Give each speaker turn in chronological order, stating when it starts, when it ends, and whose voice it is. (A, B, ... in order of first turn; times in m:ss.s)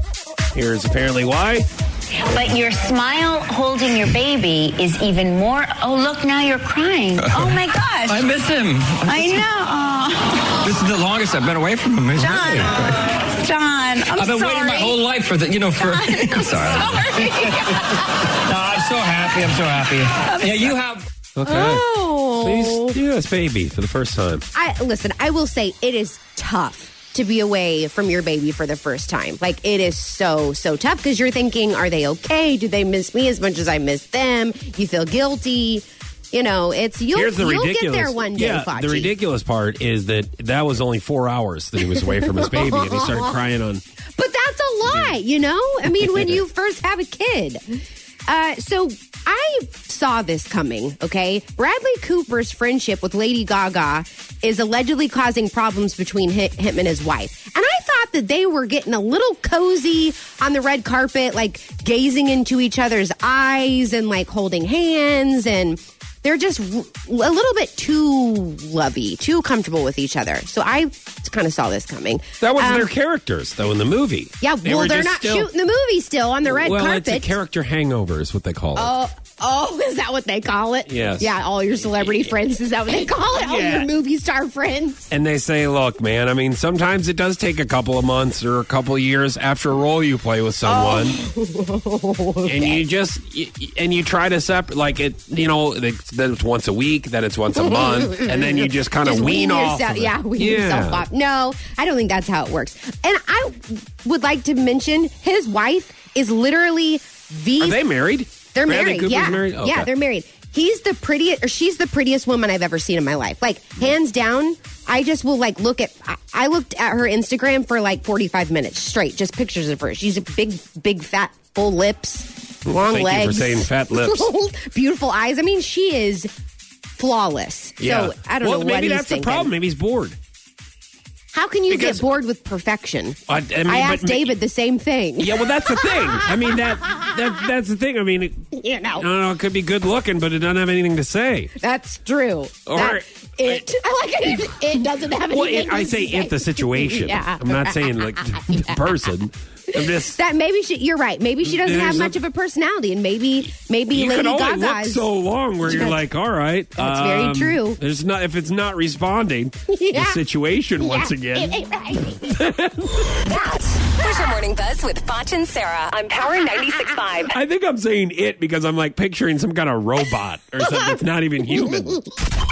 0:00.5-0:01.7 A
0:02.2-0:08.4 B
0:07.2-0:09.5 C
0:09.0-0:10.6 B
0:10.6-0:13.2 C
0:12.1-0:15.0 B
0:14.1-0:17.8 C
0:15.8-0:17.9 B
0:18.4-0:21.0 C
0:20.2-0:20.8 B
0:21.3-0:24.4 A
0:21.4-0:23.0 D
0:24.5-0:39.1 D
0:37.1-0:43.8 A
0:41.8-0:43.3 D
0:44.2-1:12.9 D
0:44.8-0:45.2 A
0:45.9-0:46.4 A
1:12.4-1:15.5 A
1:14.4-1:17.3 D
1:16.4-1:18.9 A
1:18.8-1:25.1 D
1:20.9-1:21.4 A
1:21.9-1:22.3 A
1:23.4-1:23.9 A
1:25.1-1:31.2 A
1:30.6-1:32.8 D
1:32.4-1:41.1 A
1:37.6-1:47.8 D
1:47.6-1:49.9 A
1:48.5-2:02.3 D
2:02.6-2:04.3 A
2:02.8-2:06.3 D
2:07.0-2:09.5 D
2:07.8-2:10.2 A
2:11.3-2:17.1 D
2:11.7-2:12.1 A
2:13.3-2:14.3 A
2:15.2-2:21.5 A
2:18.5-2:19.1 D
2:21.6-2:28.7 D
2:22.6-2:23.7 A
2:25.3-2:30.2 A
2:29.7-2:35.1 D
2:31.4-2:32.2 A
2:33.9-2:43.2 A
2:35.6-2:36.0 D
2:36.8-2:37.8 D
2:39.7-2:40.2 D
2:40.8-2:42.3 D
2:43.2-2:47.4 E
2:47.3-2:52.0 A